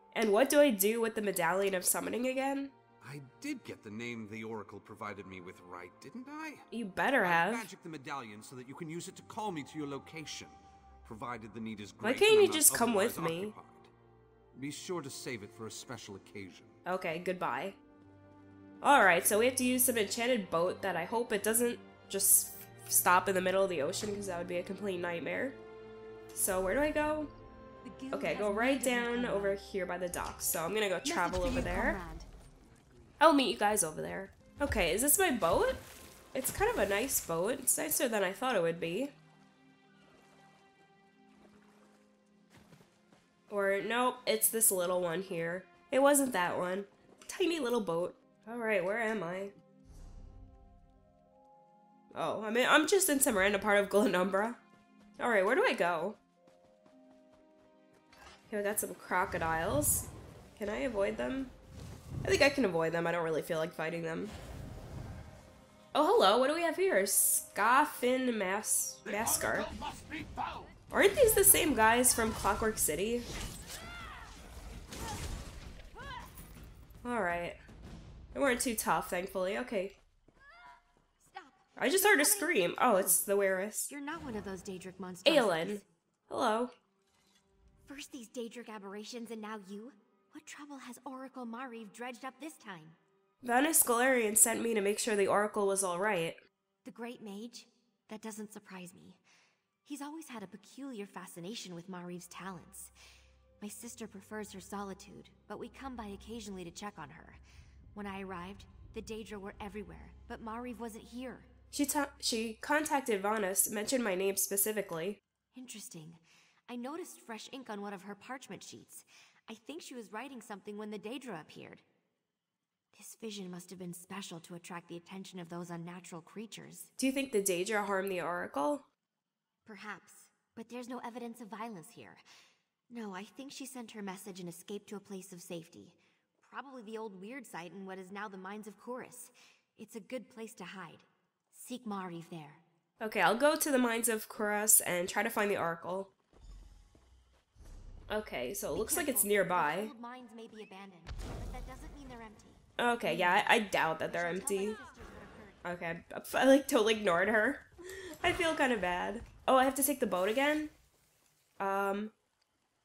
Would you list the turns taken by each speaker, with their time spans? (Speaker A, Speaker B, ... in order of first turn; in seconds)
Speaker A: 0.1-2.7, 6.7-7.7, 12.0-13.5, 16.9-17.8, 18.8-25.6, 26.3-27.3, 28.1-32.0, 33.2-35.8, 36.3-39.1, 43.5-49.5, 52.1-54.6, 55.2-56.2, 58.5-61.5, 62.2-64.3, 65.9-69.7, 70.9-73.2, 77.0-77.6, 78.3-80.0, 81.8-83.9, 85.2-86.7, 93.4-96.4, 111.7-115.2, 127.0-128.9, 143.0-146.1, 148.1-149.9, 152.8-154.8, 155.6-160.7, 161.6-162.1
Speaker B: 3.0-6.7, 7.2-13.9, 14.5-16.8
Speaker C: 27.8-29.6, 31.0-32.3, 81.2-83.2, 83.9-85.8, 87.9-93.0, 96.8-99.2, 99.8-102.9, 103.6-107.4, 107.9-111.5, 115.5-121.8, 122.9-126.9, 129.6-132.2, 132.9-142.6, 148.7-155.6